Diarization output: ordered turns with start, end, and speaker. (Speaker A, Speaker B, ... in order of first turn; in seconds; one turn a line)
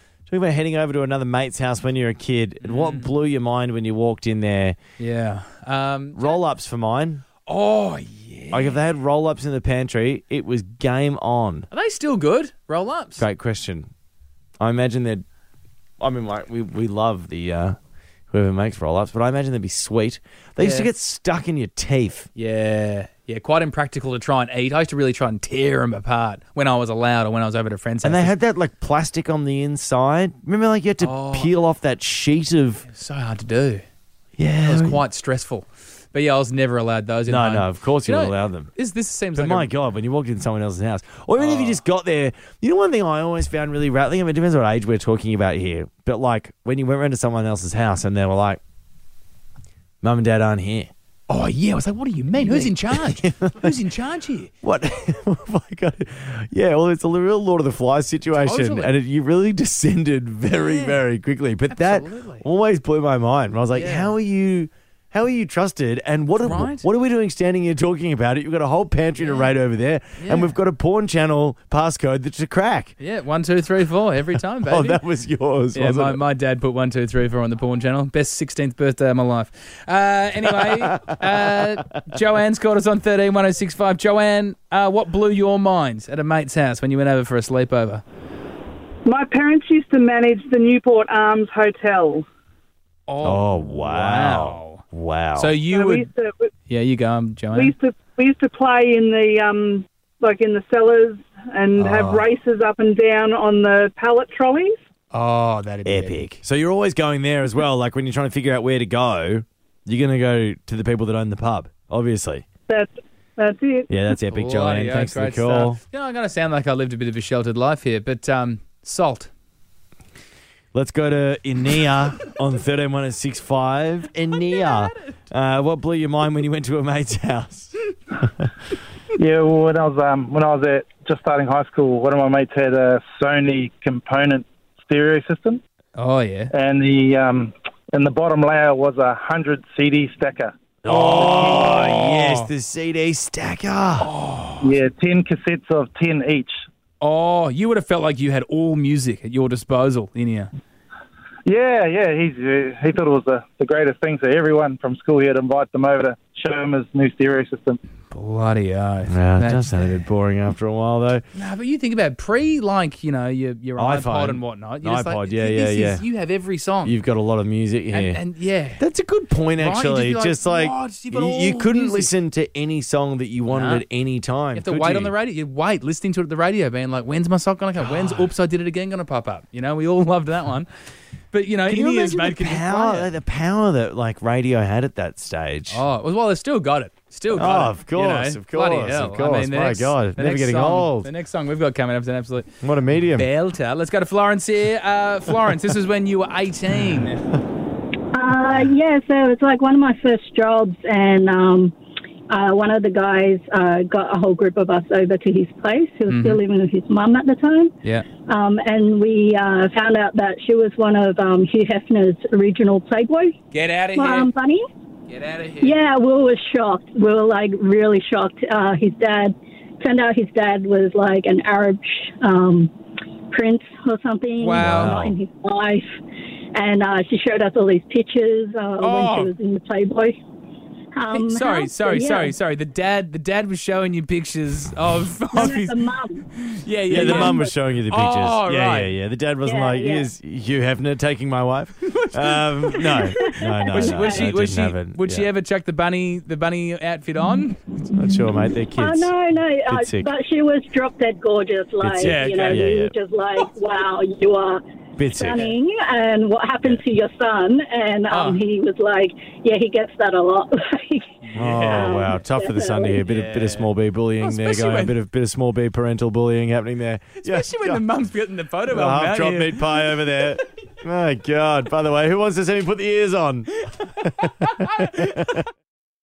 Speaker A: 0.3-4.8
Speaker B: 2.6-3.1
Speaker B: 5.0-6.3
Speaker A: 6.2-7.2
Speaker B: 7.5-8.8
Speaker A: 8.5-11.7
Speaker B: 11.7-13.2
Speaker A: 13.2-13.9
Speaker A: 14.6-15.2
Speaker A: 16.0-17.8
Speaker A: 18.3-22.3
Speaker B: 20.6-20.9
Speaker B: 22.4-28.3
Speaker A: 28.0-32.8
Speaker B: 31.0-31.5
Speaker B: 32.9-33.8
Speaker A: 34.4-35.0
Speaker B: 34.6-39.7
Speaker A: 37.3-38.7
Speaker A: 39.3-48.6
Speaker B: 41.4-41.8
Speaker A: 50.0-50.9
Speaker B: 51.3-54.5
Speaker A: 52.5-53.7
Speaker A: 54.6-72.9
Speaker B: 58.4-58.9
Speaker B: 60.5-61.0
Speaker B: 61.7-62.4
Speaker B: 63.7-64.1
Speaker B: 66.4-66.9
Speaker B: 69.2-69.5
Speaker B: 70.2-70.5
Speaker B: 73.0-75.0
Speaker A: 74.7-76.2
Speaker B: 75.7-88.0
Speaker A: 80.7-81.2
Speaker C: 89.1-89.8
Speaker D: 89.9-92.2
Speaker B: 93.1-94.8
Speaker A: 93.2-95.5
Speaker B: 95.3-96.1
Speaker C: 95.7-96.5
Speaker B: 96.7-97.7
Speaker C: 97.5-98.4
Speaker D: 98.6-104.7
Speaker B: 101.8-102.2
Speaker C: 101.9-102.2
Speaker B: 105.1-106.4
Speaker A: 105.8-112.4
Speaker A: 113.9-115.8
Speaker B: 114.3-119.3
Speaker A: 120.7-127.7
Speaker B: 124.3-124.9
Speaker C: 129.1-135.6
Speaker B: 135.9-136.5
Speaker C: 136.5-141.8
Speaker A: 140.8-144.1
Speaker B: 140.8-142.5
Speaker B: 144.0-144.7
Speaker C: 144.6-146.5
Speaker B: 147.0-150.5
Speaker C: 151.4-157.8
Speaker B: 158.1-159.9
Speaker A: 159.1-161.2
Speaker B: 161.3-167.0
Speaker A: 163.8-166.0
Speaker A: 166.8-168.2
Speaker B: 167.9-168.8
Speaker A: 168.8-175.1
Speaker B: 169.6-172.1
Speaker B: 173.5-173.8
Speaker B: 174.5-180.7
Speaker B: 181.3-183.1
Speaker A: 181.7-185.8
Speaker B: 185.7-192.5
Speaker A: 187.3-191.1
Speaker A: 192.6-193.3
Speaker B: 193.2-197.2
Speaker E: 198.1-201.7
Speaker E: 202.3-207.7
Speaker B: 206.1-206.4
Speaker E: 208.3-213.3
Speaker B: 213.5-214.3
Speaker E: 213.9-214.6
Speaker B: 215.1-215.8
Speaker E: 215.6-222.7
Speaker E: 223.3-225.8
Speaker B: 224.4-225.0
Speaker A: 224.6-225.2
Speaker E: 226.5-230.2
Speaker B: 228.8-229.3
Speaker E: 230.9-232.3
Speaker B: 231.1-235.8
Speaker E: 235.3-236.2
Speaker B: 236.4-238.9
Speaker A: 236.9-245.3
Speaker E: 236.9-237.4
Speaker E: 239.4-240.1
Speaker B: 241.9-247.8
Speaker E: 243.1-244.2
Speaker A: 247.9-250.1
Speaker E: 248.8-261.1
Speaker A: 251.8-252.9
Speaker B: 252.0-252.6
Speaker A: 255.0-255.5
Speaker B: 258.1-258.4
Speaker B: 261.2-261.9
Speaker A: 261.4-267.8
Speaker E: 261.6-263.0
Speaker B: 263.1-264.9
Speaker B: 267.2-270.2
Speaker A: 268.7-275.4
Speaker B: 274.4-275.1